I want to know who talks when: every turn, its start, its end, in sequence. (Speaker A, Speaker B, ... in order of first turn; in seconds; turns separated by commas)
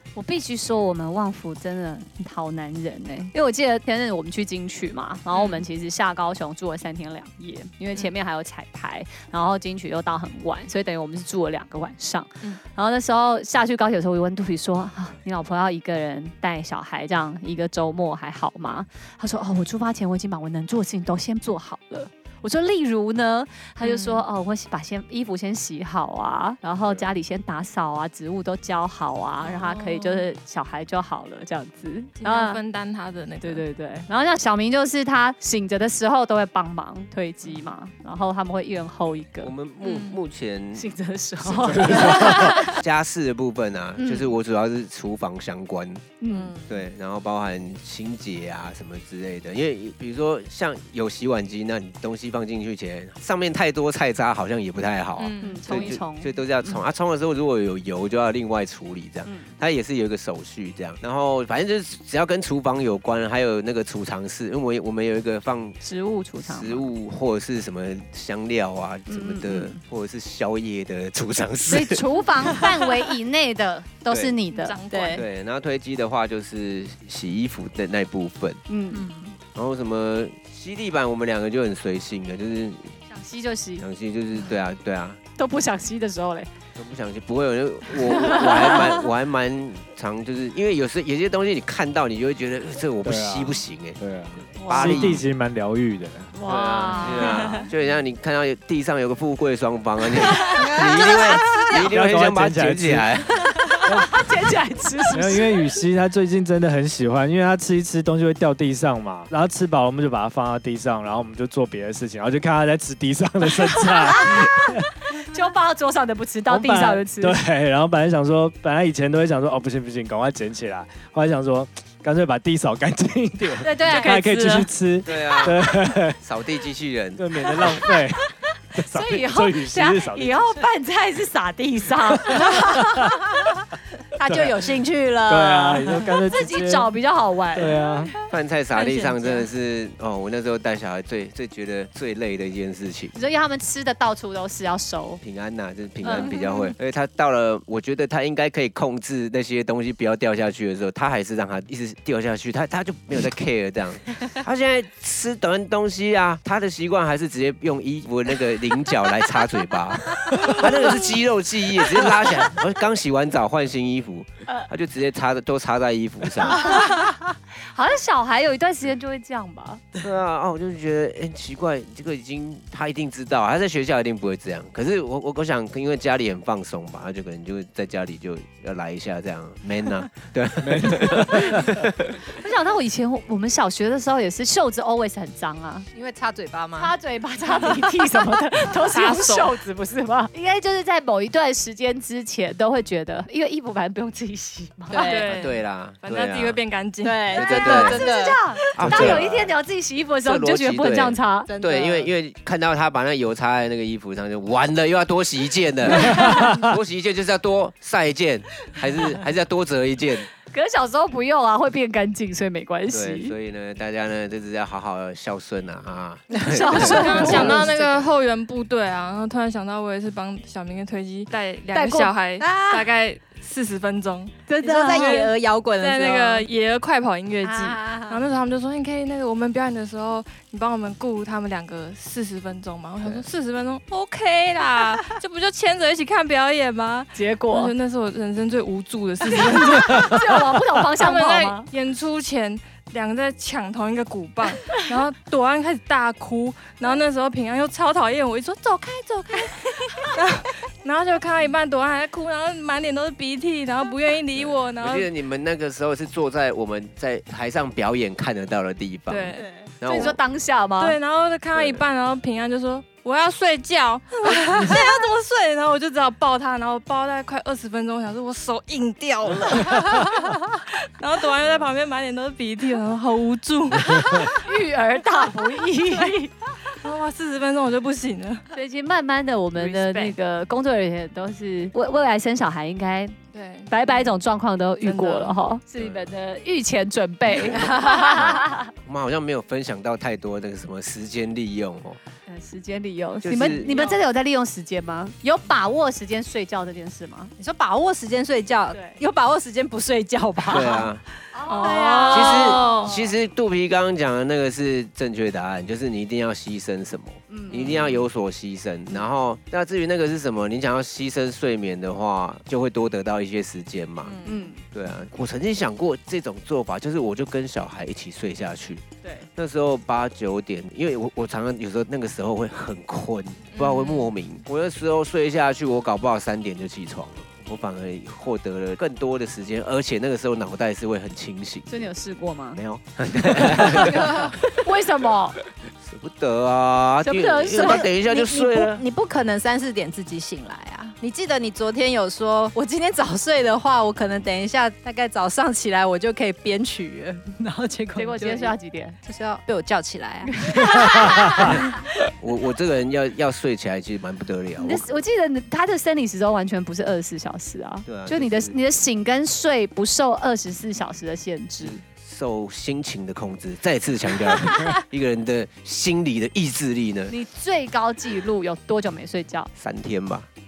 Speaker A: 0.1-32.6, Speaker B: 5.3-5.6, Speaker B: 23.8-24.2, Speaker B: 29.4-30.3, Speaker B: 32.2-33.6, Speaker A: 33.4-39.5, Speaker C: 39.4-40.9, Speaker B: 39.8-40.2, Speaker A: 40.8-42.8, Speaker C: 41.4-46.0, Speaker D: 41.7-42.5, Speaker A: 44.0-44.3, Speaker A: 46.2-46.5, Speaker E: 46.3-46.7, Speaker C: 46.6-65.8, Speaker B: 55.2-56.0, Speaker A: 55.4-56.7, Speaker A: 65.8-66.9, Speaker C: 66.4-72.0, Speaker A: 69.1-69.7, Speaker A: 71.7-74.8, Speaker C: 74.1-74.4, Speaker B: 74.5-75.2, Speaker E: 74.9-75.2, Speaker C: 75.1-78.6, Speaker A: 78.7-79.1, Speaker E: 78.9-79.4, Speaker C: 79.5-83.0, Speaker A: 83.1-83.8, Speaker C: 83.8-85.2, Speaker A: 85.3-86.5, Speaker C: 86.8-95.2, Speaker A: 88.0-89.0, Speaker D: 93.0-96.3, Speaker A: 94.6-95.1, Speaker A: 96.3-97.7, Speaker C: 96.4-103.4, Speaker B: 97.0-97.7, Speaker E: 100.5-101.9, Speaker D: 101.8-103.2, Speaker A: 103.7-105.6, Speaker D: 103.8-104.2, Speaker D: 105.1-114.8, Speaker A: 113.8-117.4, Speaker D: 116.5-126.2, Speaker A: 123.6-124.7, Speaker B: 123.8-124.2, Speaker C: 125.0-127.2, Speaker D: 127.2-130.6, Speaker A: 127.5-133.2, Speaker E: 134.1-136.1, Speaker D: 134.3-134.7, Speaker D: 135.2-136.9, Speaker A: 135.9-138.1, Speaker D: 137.5-138.1, Speaker C: 138.3-143.2, Speaker B: 138.7-139.5, Speaker A: 143.2-145.2, Speaker C: 145.2-166.7, Speaker A: 146.0-146.3, Speaker B: 146.2-146.7, Speaker A: 166.5-169.8, Speaker C: 170.0-182.2, Speaker D: 180.6-181.8, Speaker A: 182.3-185.9, Speaker E: 185.9-186.9, Speaker A: 186.8-195.4, Speaker B: 188.7-189.5, Speaker E: 194.9-195.3, Speaker B: 194.9-197.5, Speaker C: 195.3-196.6, Speaker E: 197.0-198.7, Speaker C: 197.3-198.0, Speaker A: 197.3-201.5, Speaker C: 198.7-199.5, Speaker D: 198.8-199.3, Speaker C: 200.2-210.3, Speaker E: 201.4-202.1, Speaker A: 210.5-213.3, Speaker C: 212.9-217.6, Speaker E: 216.3-217.7, Speaker A: 216.4-218.1, Speaker B: 216.8-224.4, Speaker A: 221.7-222.1, Speaker E: 222.4-222.9, Speaker A: 224.5-225.3, Speaker E: 224.6-226.5, Speaker B: 224.9-255.1, Speaker A: 227.4-227.7, Speaker E: 227.6-228.2, Speaker A: 237.1-237.7, Speaker A: 239.3-241.7, Speaker C: 254.3-260.2, Speaker B: 259.1-259.5, Speaker A: 259.8-260.9, Speaker B: 260.8-274.4, Speaker C: 261.5-261.8, Speaker D: 269.5-269.8, Speaker A: 274.2-276.5, Speaker B: 276.7-278.5, Speaker A: 278.5-283.1, Speaker B: 279.6-280.1, Speaker B: 283.3-284.1, Speaker A: 283.7-288.7, Speaker B: 284.8-285.4, Speaker C: 285.8-286.1, Speaker C: 287.4-292.0, Speaker E: 287.5-288.2, Speaker A: 292.3-297.3, Speaker C: 293.2-293.8, Speaker B: 293.4-294.0, Speaker E: 297.4-300.9, Speaker A: 298.7-299.0, Speaker C: 300.5-301.0, Speaker A: 301.3-303.0, Speaker B: 301.5-302.9, Speaker C: 302.1-314.2, Speaker A: 307.3-307.8, Speaker B: 307.5-307.8, Speaker A: 314.2-314.6, Speaker C: 314.7-318.8, Speaker A: 319.0-319.3, Speaker C: 319.3-331.9, Speaker B: 323.5-324.1, Speaker A: 331.7-332.6, Speaker C: 332.5-334.4, Speaker A: 333.5-335.4, Speaker E: 333.7-334.3, Speaker C: 335.8-338.8, Speaker A: 337.0-337.9, Speaker E: 337.6-351.5, Speaker A: 347.9-349.0, Speaker A: 350.3-351.6, Speaker C: 352.2-354.9, Speaker A: 354.6-361.8, Speaker C: 357.9-358.6, Speaker C: 361.6-367.1, Speaker A: 367.1-369.5, Speaker C: 369.6-370.3